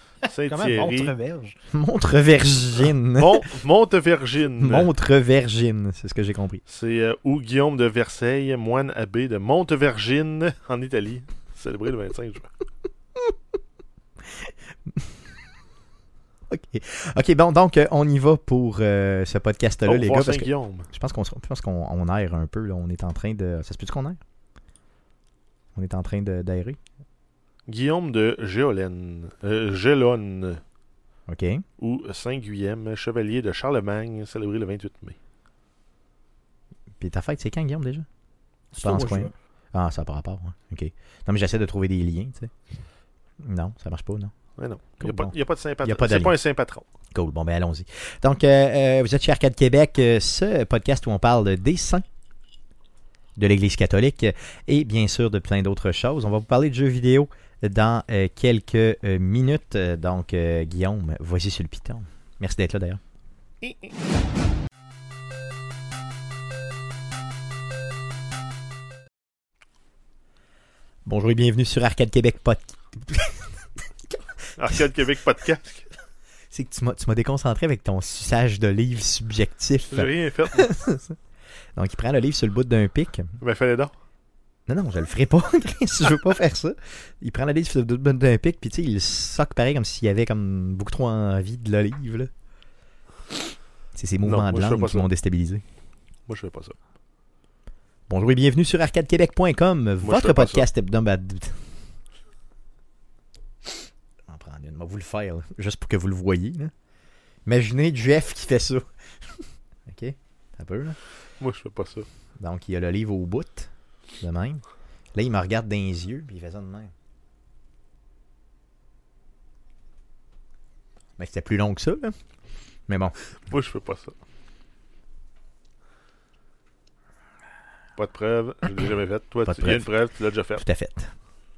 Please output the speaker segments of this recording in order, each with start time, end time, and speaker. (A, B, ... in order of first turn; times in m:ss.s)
0:00.3-0:01.1 A
0:00.3-0:01.6 B
0:01.7-0:03.5 C
0:03.2-0:04.9 A
0:04.6-0:06.6 C
0:06.7-0:12.5 A
0:14.4-0:15.1 C
0:16.5-0:24.2 C
0:19.8-0:20.9 A
0:25.7-0:26.8 C
0:27.7-0:30.6 A
0:31.3-0:31.6 C
0:31.8-0:35.2 A
0:37.0-0:38.0 C
0:38.7-0:39.3 B
0:38.8-0:42.5 C
0:43.4-0:44.3 C
0:44.6-0:46.8 A
0:45.0-0:46.4 C
0:47.1-0:52.0 C
0:53.4-1:03.0 C
1:03.6-1:03.9 A
1:11.0-1:14.2 C
1:14.6-1:15.8 A
1:16.5-1:21.2 C
1:19.9-1:20.7 A
1:21.8-1:23.3 C
1:23.4-1:23.9 A
1:24.7-1:32.3 C
1:33.9-1:35.6 C
1:34.2-1:35.1 A
1:36.3-1:36.8 A
1:38.1-1:41.6 C
1:40.0-1:40.7 A
1:44.3-1:46.7 C
1:47.4-1:48.8 C
1:49.9-1:51.0 C
1:51.4-1:52.0 A
1:52.4-1:54.6 C
1:55.1-1:56.9 C
2:01.2-2:02.1 C
2:02.9-2:03.1 C
2:03.5-2:04.1 A
2:08.0-2:10.6 A
2:09.4-2:09.9 C
2:10.6-2:11.1 C